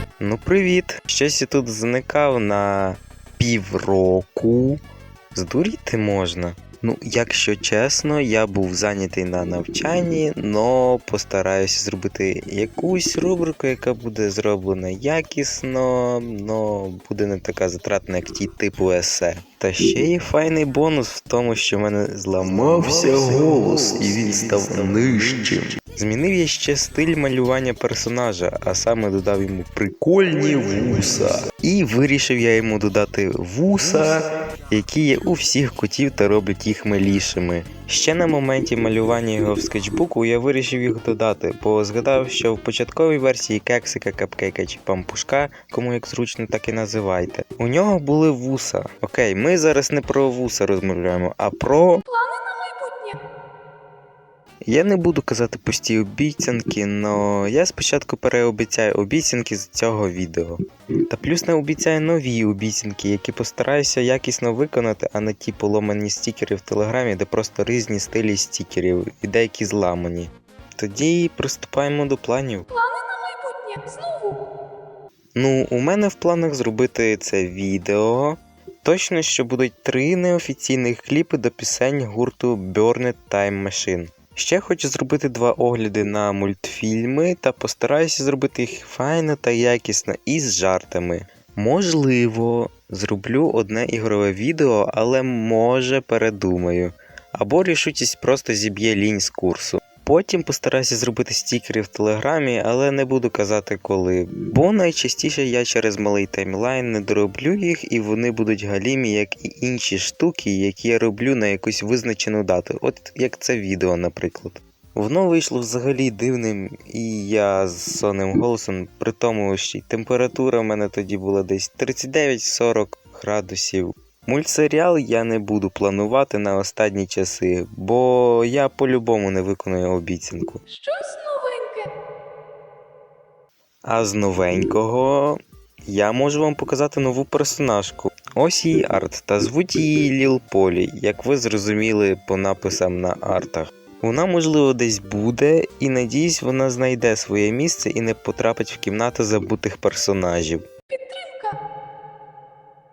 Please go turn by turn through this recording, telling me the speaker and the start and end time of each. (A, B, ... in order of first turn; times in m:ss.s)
0:00.2-0:04.8 A
0:05.3-0:52.0 A
0:52.0-0:53.2 B
0:54.6-1:00.6 A
1:01.1-1:12.7 A
1:12.7-1:14.4 B
1:15.4-2:10.6 A
2:10.7-2:11.9 B
2:13.8-2:30.6 A
2:30.9-2:31.6 B